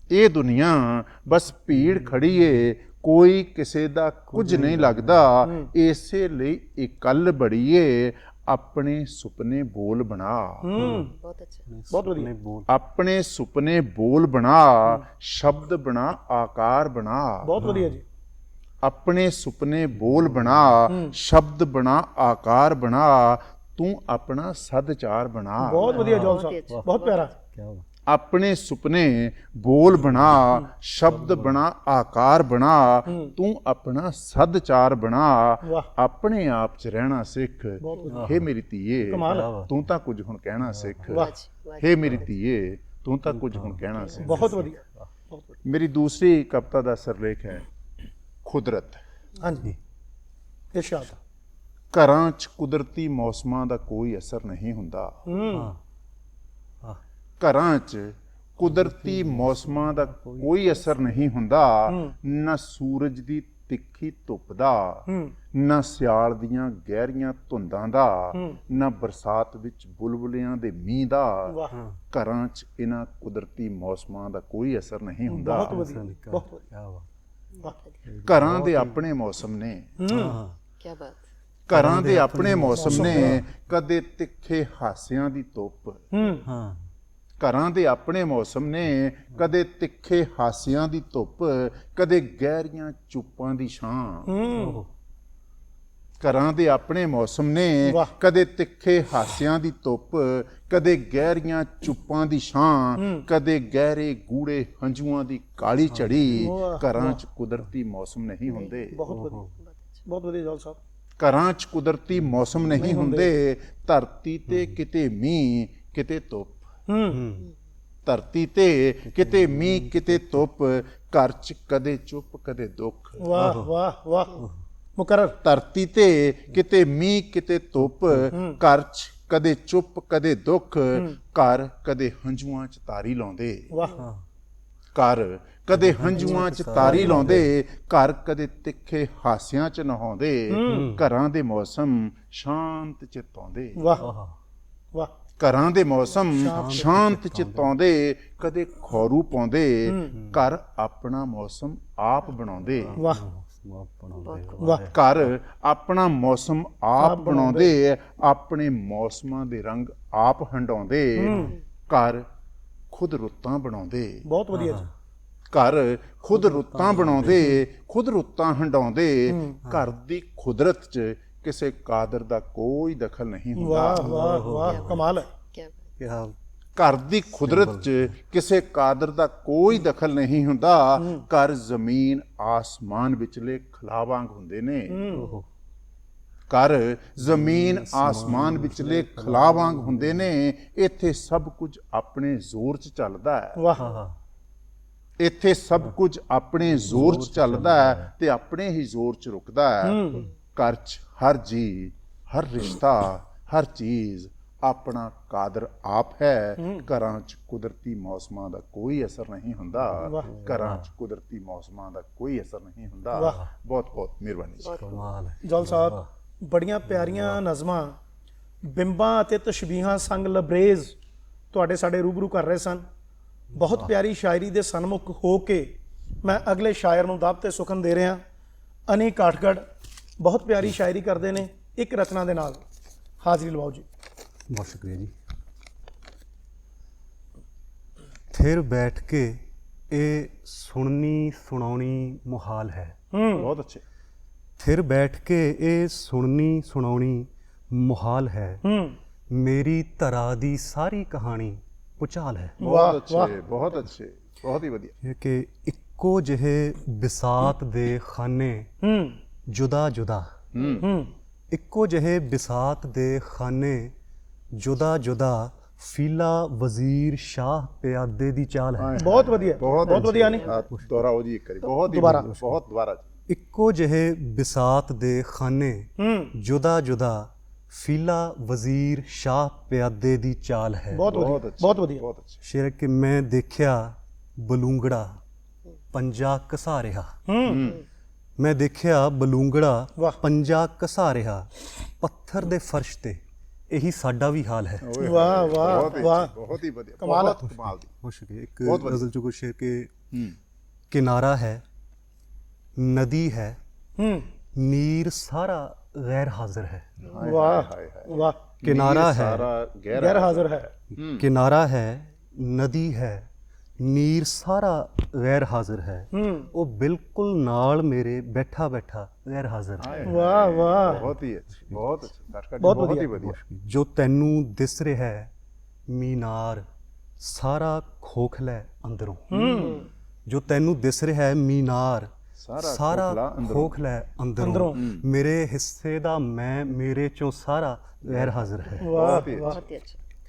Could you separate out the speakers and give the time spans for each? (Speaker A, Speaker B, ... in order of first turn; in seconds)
Speaker A: 0.1-10.9, 12.7-17.7, 18.8-26.1, 28.1-44.6, 45.6-47.7, 48.4-49.0, 51.9-55.2, 57.4-75.9, 78.2-80.0, 81.7-86.1, 87.4-94.3, 96.2-109.0, 111.2-116.7, 118.0-123.3, 125.4-133.8, 134.9-143.9, 145.4-153.0, 154.9-162.2, 162.9-164.2, 165.5-174.3, 176.8-185.2, 186.5-193.7, 195.2-214.8, 243.3-243.8, 252.6-254.9, 260.5-260.9, 268.8-273.1, 281.1-282.4, 287.4-287.8, 294.8-297.9, 298.6-299.0, 300.1-300.4, 307.0-311.3, 319.8-323.4, 329.4-329.8, 332.4-333.8, 334.7-335.1, 338.0-339.6
Speaker B: 1.8-2.1, 4.3-5.3, 10.8-11.1, 11.7-12.7, 17.6-18.0, 20.0-20.7, 25.9-26.9, 27.5-27.8, 31.1-31.6, 38.1-38.5, 39.1-39.7, 40.6-41.1, 43.3-45.1, 55.5-55.8, 58.6-61.2, 71.7-72.0, 75.7-77.1, 78.1-79.0, 80.1-80.5, 81.7-83.4, 86.4-86.9, 94.5-94.9, 105.9-106.4, 109.1-109.6, 112.2-112.7, 114.5-114.8, 117.1-117.5, 119.2-120.1, 123.3-123.7, 134.0-134.2, 135.7-137.5, 140.6-141.0, 144.0-144.3, 146.4-147.7, 152.8-155.0, 164.5-164.9, 166.4-167.6, 173.9-175.0, 176.0-176.3, 177.4-178.1, 185.1-185.4, 187.2-190.3, 193.8-194.2, 196.8-198.1, 210.2-210.9, 214.8-216.1, 216.9-217.4, 223.5-223.9, 234.5-235.1, 238.3-242.9, 244.6-248.6, 249.3-252.6, 255.0-258.7, 259.5-260.3, 261.5-263.9, 264.5-269.2, 270.0-271.0, 272.0-272.6, 273.3-281.1, 282.4-285.2, 285.9-287.1, 288.4-295.9, 298.0-299.9, 300.9-301.6, 302.8-303.6, 304.5-306.9, 308.6-309.5, 310.9-320.2, 322.6-325.3, 325.9-326.7, 327.2-329.7, 330.2-339.2
Speaker C: 5.4-5.7, 10.6-11.1, 11.9-12.3, 17.4-18.0, 20.9-21.1, 25.6-27.3, 33.1-33.4, 35.6-35.9, 37.8-38.2, 39.0-39.5, 44.2-45.6, 49.4-49.7, 50.7-51.1, 55.2-55.7, 61.9-62.1, 65.1-65.3, 68.3-68.6, 71.5-71.8, 75.3-76.6, 80.0-80.4, 82.7-83.4, 86.1-86.4, 94.2-94.8, 97.8-98.1, 103.0-103.3, 106.3-107.2, 108.8-109.4, 110.0-110.8, 112.7-113.3, 116.9-117.2, 123.2-124.4, 125.0-125.4, 128.3-128.6, 133.7-134.0, 136.8-137.3, 140.5-140.9, 143.8-144.1, 146.3-146.9, 149.8-150.2, 153.0-153.2, 154.6-154.9, 157.0-157.7, 161.2-161.5, 164.2-164.8, 169.3-169.6, 173.6-175.3, 181.0-181.2, 184.9-185.3, 193.6-193.8, 199.8-200.2, 206.6-206.9, 210.0-210.3, 213.1-213.4, 215.4-218.0, 218.6-220.9, 221.5-222.8, 223.5-228.2, 228.9-229.7, 230.2-232.6, 233.2-233.8, 243.1-243.5, 248.6-249.0, 252.6-253.4, 258.8-259.2, 260.8-261.1, 269.0-270.5, 271.7-272.3, 276.0-276.3, 280.9-282.0, 287.3-287.7, 295.0-296.3, 297.0-297.4, 304.0-304.3, 307.2-308.4, 309.9-310.7, 316.1-316.5, 320.1-321.1, 322.6-322.9, 329.3-329.9, 334.4-334.8, 338.8-339.6
Speaker D: 10.9-11.6, 25.8-27.3, 41.1-42.3, 77.5-78.0, 80.8-81.2, 109.6-110.0, 154.2-154.7, 174.6-175.8, 214.6-215.0, 269.6-270.7, 339.2-340.0